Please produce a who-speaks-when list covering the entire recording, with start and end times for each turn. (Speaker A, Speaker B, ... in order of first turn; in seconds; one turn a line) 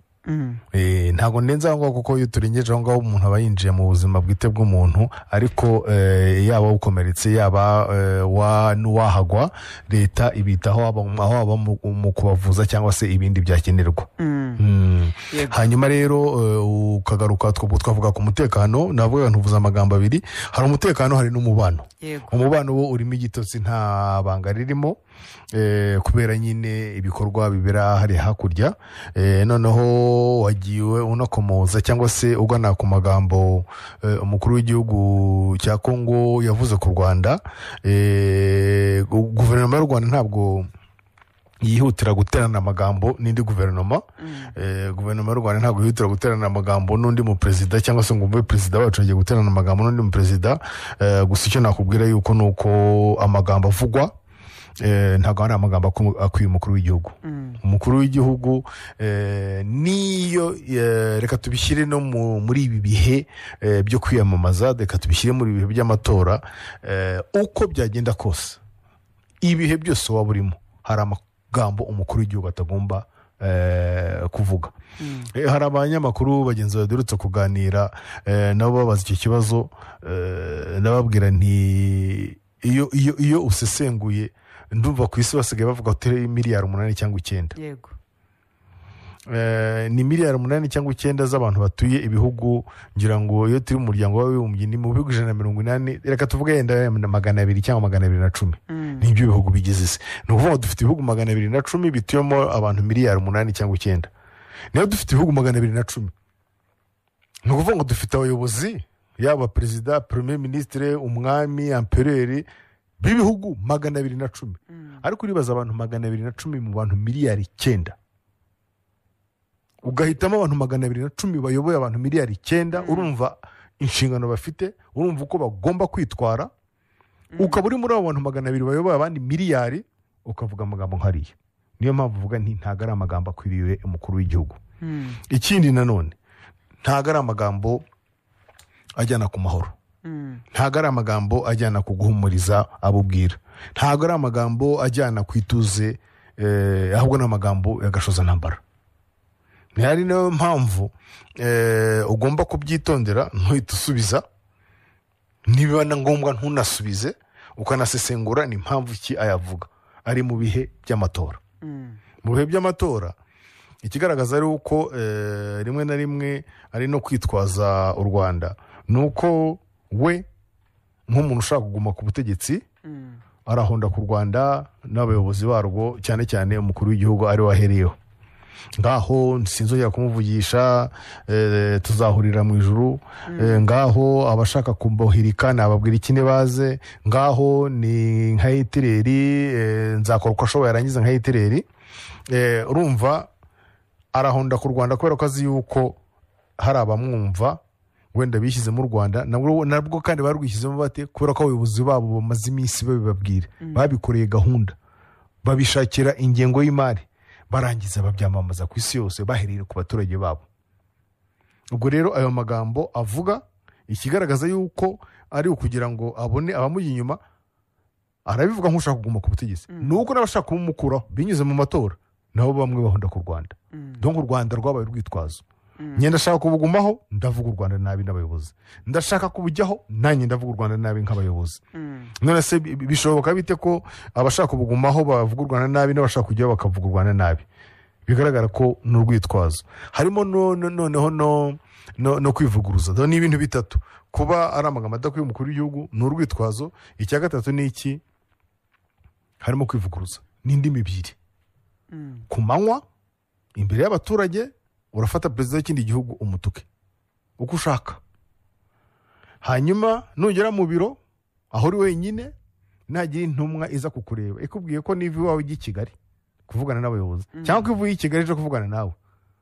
Speaker A: 0.3-0.6
Speaker B: 0.7-25.0
Speaker A: 14.2-14.6
Speaker A: 15.3-15.6
Speaker A: 22.0-22.4
Speaker B: 25.5-40.7
Speaker B: 41.6-44.0
Speaker A: 44.2-44.5
Speaker B: 44.5-54.1
Speaker B: 54.8-68.6
Speaker A: 57.2-57.6
Speaker B: 69.4-74.7
Speaker A: 75.0-75.3
Speaker B: 75.3-87.6
Speaker A: 87.6-88.0
Speaker B: 89.3-104.1
Speaker A: 98.7-99.1
Speaker B: 104.7-106.1
Speaker B: 107.5-112.5
Speaker B: 113.0-118.0
Speaker B: 119.8-126.5
Speaker A: 122.8-123.1
Speaker A: 127.3-127.6
Speaker B: 127.4-134.6
Speaker A: 134.8-135.2
Speaker B: 135.3-136.2
Speaker B: 136.8-137.8
Speaker B: 139.0-139.7
Speaker A: 140.1-140.4
Speaker B: 140.5-148.6
Speaker B: 149.8-154.2
Speaker B: 155.4-161.4
Speaker A: 161.6-162.0
Speaker B: 162.2-163.2
Speaker B: 163.8-170.3
Speaker B: 171.1-172.6
Speaker A: 172.9-173.2
Speaker B: 173.5-178.0
Speaker B: 178.8-191.7
Speaker A: 183.3-183.6
Speaker B: 192.3-193.3
Speaker B: 194.1-196.0
Speaker B: 196.6-197.6
Speaker B: 198.1-204.8
Speaker A: 203.6-203.9
Speaker B: 205.4-210.5
Speaker B: 211.7-217.2
Speaker B: 218.3-225.4
Speaker A: 219.7-220.0
Speaker A: 223.7-224.0
Speaker A: 225.8-226.1
Speaker B: 226.0-231.6
Speaker A: 231.7-232.1
Speaker B: 232.2-237.4
Speaker B: 238.1-248.0
Speaker B: 249.4-251.2
Speaker A: 251.9-252.3
Speaker B: 252.3-252.8
Speaker B: 253.6-256.7
Speaker B: 257.4-258.0
Speaker B: 259.4-261.0
Speaker B: 261.5-262.3
Speaker B: 262.9-265.9
Speaker B: 266.5-269.0
Speaker A: 267.3-267.7